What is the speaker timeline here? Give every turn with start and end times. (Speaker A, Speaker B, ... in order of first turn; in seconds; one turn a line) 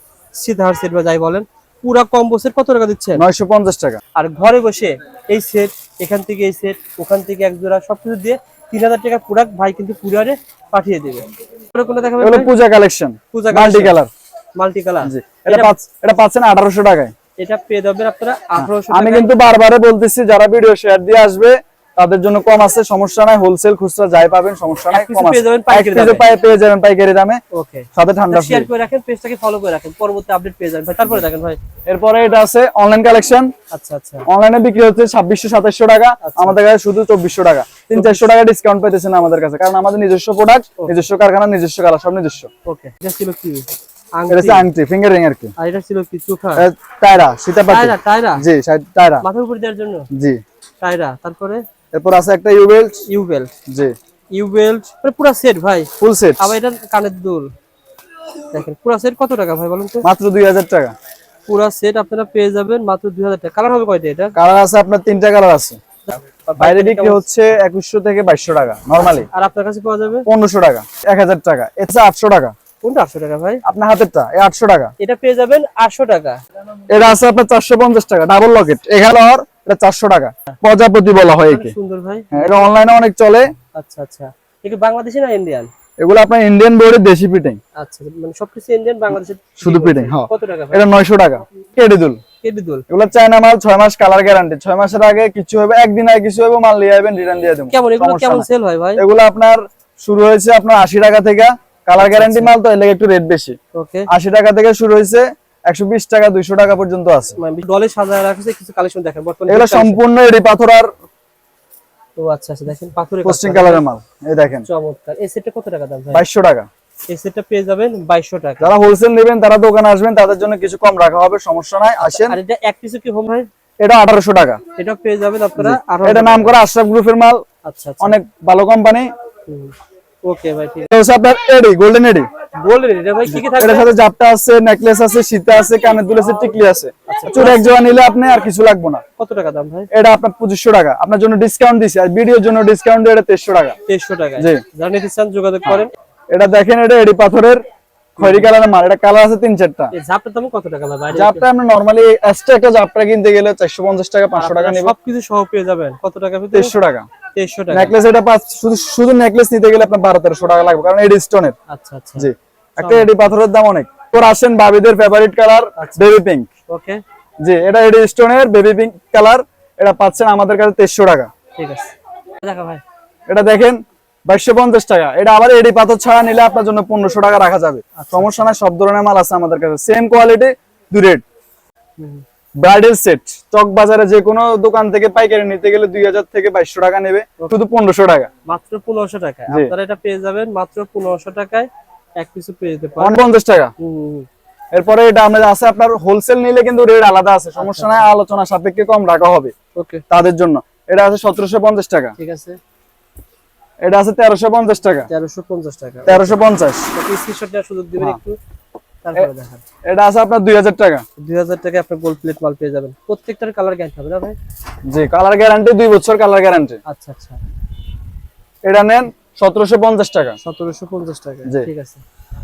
Speaker A: 0.3-3.2
Speaker B: 3.1-4.0
Speaker A: 4.2-12.5
Speaker B: 12.2-14.1
Speaker A: 13.3-14.0
Speaker A: 14.6-15.8
Speaker B: 15.0-17.1
Speaker A: 17.4-19.3
Speaker B: 18.6-27.4
Speaker A: 24.9-26.3
Speaker A: 27.5-31.6
Speaker B: 27.9-28.7
Speaker B: 31.9-33.5
Speaker A: 33.7-34.3
Speaker B: 34.3-42.5
Speaker A: 36.2-36.6
Speaker A: 37.9-38.3
Speaker A: 42.7-44.7
Speaker B: 44.3-45.5
Speaker A: 45.6-46.6
Speaker B: 46.6-49.2
Speaker A: 47.7-48.4
Speaker A: 49.2-50.1
Speaker B: 50.1-50.4
Speaker A: 50.8-51.6
Speaker B: 51.9-53.0
Speaker A: 53.1-53.5
Speaker B: 53.7-53.9
Speaker A: 54.3-57.5
Speaker B: 56.0-56.5
Speaker A: 58.5-60.0
Speaker B: 60.0-60.9
Speaker A: 61.5-64.3
Speaker B: 64.3-65.8
Speaker A: 66.0-67.2
Speaker B: 66.6-69.3
Speaker A: 69.3-70.3
Speaker B: 70.2-72.5
Speaker A: 72.8-73.6
Speaker B: 73.7-74.9
Speaker A: 75.0-76.4
Speaker B: 76.9-81.7
Speaker A: 81.5-82.7
Speaker B: 82.3-83.5
Speaker A: 83.8-85.7
Speaker B: 86.0-87.6
Speaker A: 87.8-90.8
Speaker B: 89.6-92.2
Speaker A: 92.4-92.8
Speaker B: 92.9-103.5
Speaker A: 97.7-99.0
Speaker A: 102.0-102.5
Speaker A: 103.8-104.1
Speaker B: 104.1-107.4
Speaker A: 107.4-110.0
Speaker B: 109.5-110.9
Speaker A: 112.2-113.8
Speaker B: 113.2-114.7
Speaker A: 114.6-116.2
Speaker B: 116.1-116.7
Speaker A: 117.1-118.7
Speaker B: 118.6-122.4
Speaker A: 122.0-123.5
Speaker B: 123.8-124.6
Speaker A: 124.8-126.5
Speaker B: 125.6-127.4
Speaker A: 127.6-128.1
Speaker B: 128.0-129.1
Speaker A: 129.5-129.7
Speaker A: 130.2-130.9
Speaker B: 130.9-132.3
Speaker A: 132.6-133.9
Speaker B: 133.2-139.0
Speaker A: 137.1-137.7
Speaker A: 139.2-139.9
Speaker B: 139.9-143.8
Speaker A: 143.9-145.9
Speaker B: 145.7-147.6
Speaker A: 148.2-148.5
Speaker B: 148.2-149.9
Speaker A: 149.9-151.4
Speaker B: 151.1-154.9
Speaker A: 154.3-156.7
Speaker B: 156.5-157.1
Speaker A: 157.3-157.9
Speaker B: 157.7-161.5
Speaker A: 161.7-163.2
Speaker B: 162.2-166.5
Speaker A: 166.7-167.0
Speaker B: 167.4-171.3
Speaker A: 171.6-172.8
Speaker B: 173.3-181.2
Speaker A: 178.0-178.5
Speaker A: 182.0-182.2
Speaker B: 182.6-188.3
Speaker A: 188.5-191.7
Speaker A: 192.2-193.2
Speaker B: 193.0-193.7
Speaker A: 193.8-194.3
Speaker B: 194.7-199.5
Speaker A: 197.6-198.1
Speaker A: 199.8-200.0
Speaker B: 200.1-202.1
Speaker A: 202.2-202.6
Speaker B: 203.8-205.1
Speaker A: 205.1-206.4
Speaker B: 206.1-206.9
Speaker A: 206.9-208.3
Speaker A: 209.0-209.6
Speaker B: 209.9-211.0
Speaker A: 211.2-214.3
Speaker B: 214.9-216.8
Speaker A: 216.9-217.4
Speaker B: 218.6-220.4
Speaker A: 220.4-222.0